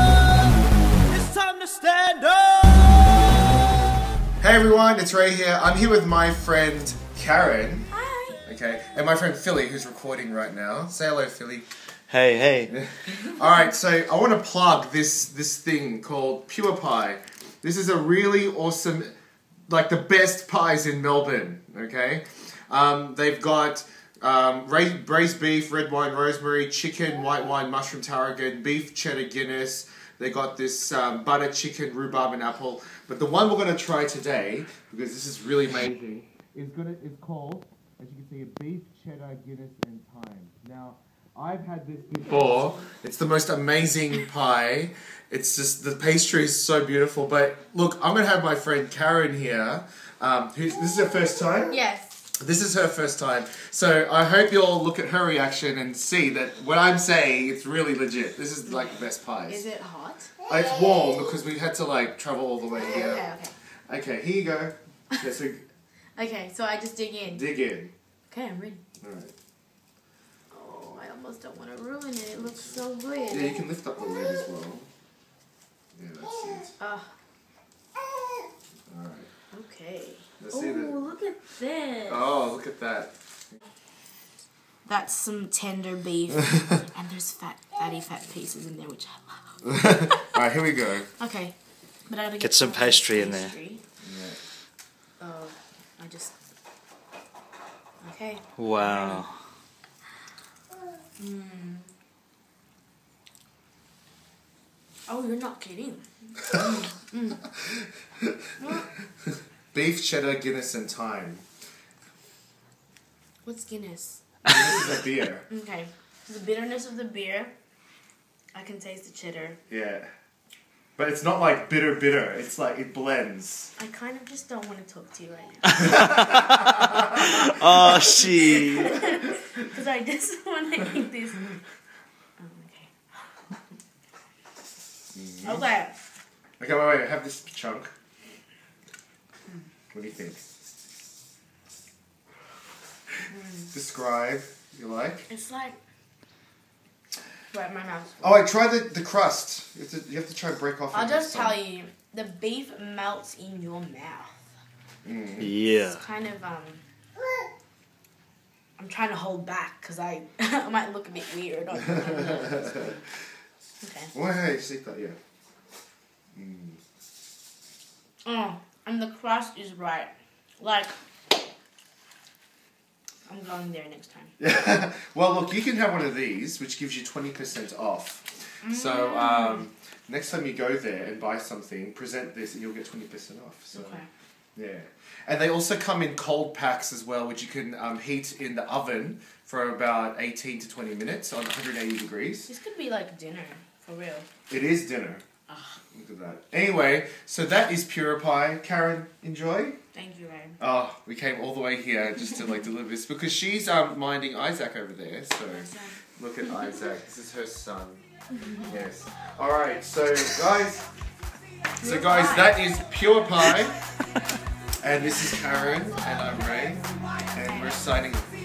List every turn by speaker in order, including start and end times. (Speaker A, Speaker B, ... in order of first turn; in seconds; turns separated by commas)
Speaker A: 1.1-3.1, Speaker B: 4.4-7.9, Speaker C: 7.9-8.4, Speaker B: 8.4-11.7, Speaker A: 12.1-12.7, Speaker B: 12.7-19.1, Speaker B: 19.7-51.8, Speaker C: 42.4-42.9, Speaker C: 51.7-52.2, Speaker B: 52.4-59.6, Speaker C: 58.6-60.3, Speaker B: 60.5-63.3, Speaker C: 62.7-63.5, Speaker B: 63.9-65.7, Speaker C: 66.1-67.5, Speaker B: 67.3-67.9, Speaker C: 68.3-68.8, Speaker B: 69.0-69.3, Speaker C: 70.5-73.6, Speaker B: 73.3-74.9, Speaker B: 75.9-76.8, Speaker C: 76.8-77.1, Speaker B: 78.9-79.3, Speaker C: 79.5-82.2, Speaker B: 80.4-81.0, Speaker B: 82.1-83.1, Speaker C: 84.8-90.3, Speaker B: 89.7-91.1, Speaker C: 91.2-91.5, Speaker C: 92.1-93.8, Speaker A: 92.4-93.5, Speaker B: 94.0-94.4, Speaker C: 95.2-96.3, Speaker C: 98.0-99.2, Speaker A: 98.6-99.3, Speaker C: 101.2-101.9, Speaker C: 105.1-107.5, Speaker C: 108.6-108.9, Speaker B: 109.7-111.4, Speaker C: 113.4-117.5, Speaker B: 114.5-115.4, Speaker C: 118.5-119.6, Speaker B: 119.7-120.1, Speaker B: 121.0-123.7, Speaker C: 123.8-126.4, Speaker C: 127.3-131.6, Speaker A: 127.3-128.9, Speaker C: 132.4-132.9, Speaker B: 135.1-135.6, Speaker C: 135.4-135.9, Speaker B: 136.6-137.9, Speaker B: 139.9-140.4, Speaker C: 143.3-143.7, Speaker B: 143.7-145.3, Speaker C: 145.3-145.8, Speaker C: 147.5-148.4, Speaker B: 148.2-151.6, Speaker C: 150.9-154.4, Speaker B: 155.0-155.5, Speaker A: 155.4-156.0, Speaker C: 155.8-156.8, Speaker C: 158.8-162.9, Speaker B: 162.3-162.9, Speaker C: 163.8-164.1, Speaker B: 164.1-165.2, Speaker B: 166.3-166.8, Speaker C: 168.2-170.9, Speaker C: 173.3-174.3, Speaker B: 174.4-184.0, Speaker C: 178.6-179.6, Speaker C: 183.7-184.1, Speaker B: 184.6-192.5, Speaker C: 192.5-194.2, Speaker B: 194.5-195.2, Speaker C: 195.5-195.8, Speaker B: 195.9-199.8, Speaker C: 199.9-200.6, Speaker B: 200.6-208.0, Speaker C: 205.5-206.0, Speaker B: 208.6-210.9, Speaker C: 211.8-212.6, Speaker B: 211.8-213.8, Speaker B: 214.8-218.3